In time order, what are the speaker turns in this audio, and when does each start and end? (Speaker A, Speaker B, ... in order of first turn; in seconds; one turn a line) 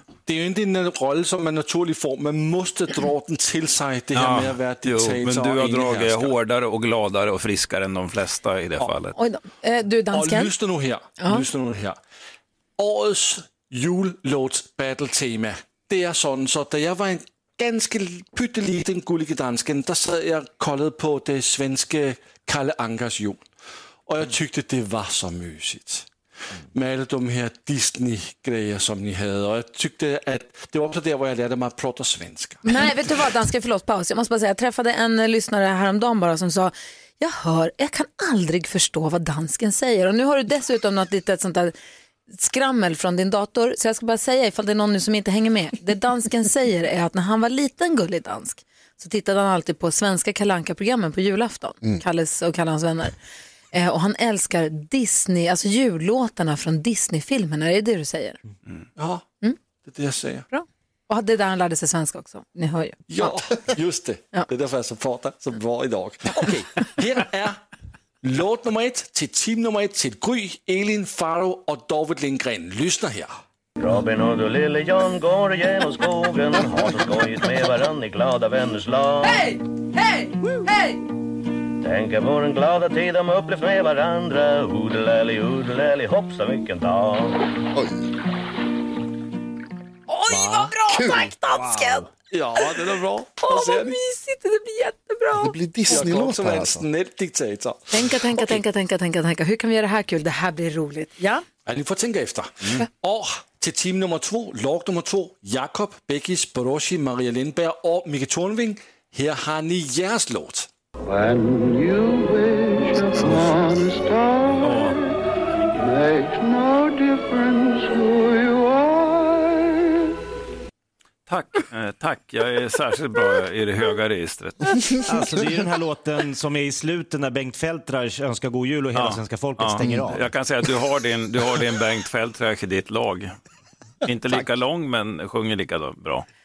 Speaker A: 0.2-6.3
Speaker B: 4.1-9.1
Speaker C: 9.1-10.5
Speaker A: 10.1-12.0
Speaker A: 12.8-23.5
Speaker A: 24.1-26.1
Speaker A: 26.7-32.9
Speaker C: 32.6-41.7
Speaker C: 42.3-53.1
Speaker C: 53.7-58.4
Speaker A: 59.0-59.2
Speaker A: 59.8-60.5
Speaker C: 60.5-63.3
Speaker A: 63.1-67.6
Speaker A: 68.2-73.3
Speaker D: 73.8-79.5
Speaker C: 79.2-81.0
Speaker D: 81.8-87.4
Speaker E: 87.7-88.0
Speaker C: 90.1-92.7
Speaker A: 90.3-90.7
Speaker E: 90.9-91.3
Speaker A: 92.2-94.0
Speaker C: 93.4-96.0
Speaker E: 95.4-96.8
Speaker A: 95.9-98.6
Speaker C: 97.9-101.4
Speaker A: 101.7-110.7
Speaker F: 111.0-114.9
Speaker B: 114.6-115.0
Speaker F: 115.7-119.7
Speaker B: 121.3-124.8
Speaker G: 125.0-130.3
Speaker B: 128.9-133.3
Speaker B: 134.0-136.2